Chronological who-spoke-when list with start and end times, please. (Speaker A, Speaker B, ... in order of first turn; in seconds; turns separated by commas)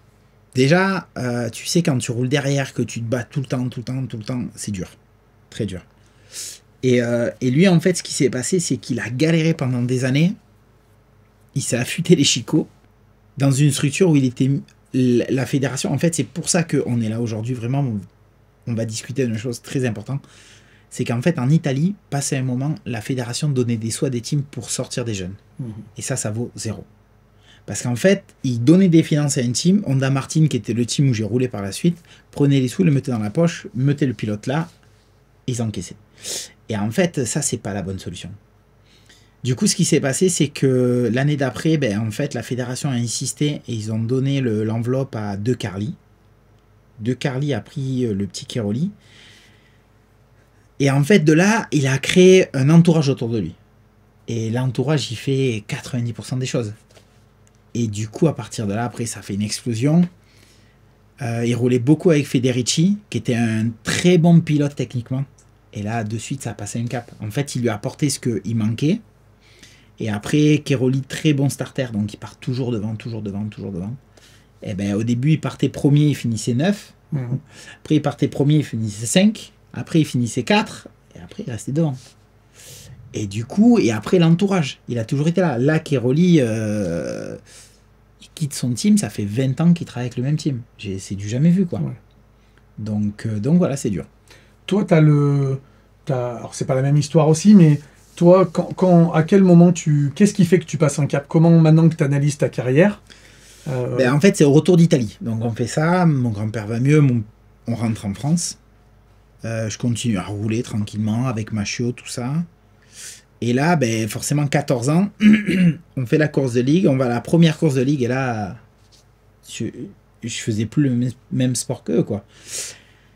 Speaker A: 0.5-4.9, Speaker A: 5.5-5.8, Speaker A: 6.8-10.4, Speaker A: 11.5-12.7, Speaker A: 13.4-18.0, Speaker A: 18.6-20.2, Speaker A: 20.9-25.4, Speaker B: 25.6-25.8, Speaker A: 25.9-26.9, Speaker A: 27.7-34.7, Speaker A: 35.5-38.4, Speaker A: 39.4-46.0, Speaker A: 47.0-48.9, Speaker A: 50.8-53.6, Speaker A: 54.3-56.7, Speaker A: 57.7-60.1, Speaker A: 61.2-69.0, Speaker A: 70.0-74.0, Speaker A: 74.6-77.0, Speaker B: 77.1-77.4, Speaker A: 77.8-82.0, Speaker A: 83.1-87.4, Speaker A: 88.2-91.9, Speaker A: 92.8-94.1, Speaker B: 94.7-103.0, Speaker B: 103.7-104.2, Speaker A: 103.9-108.6, Speaker A: 109.4-112.5, Speaker A: 113.4-118.6, Speaker A: 119.4-122.2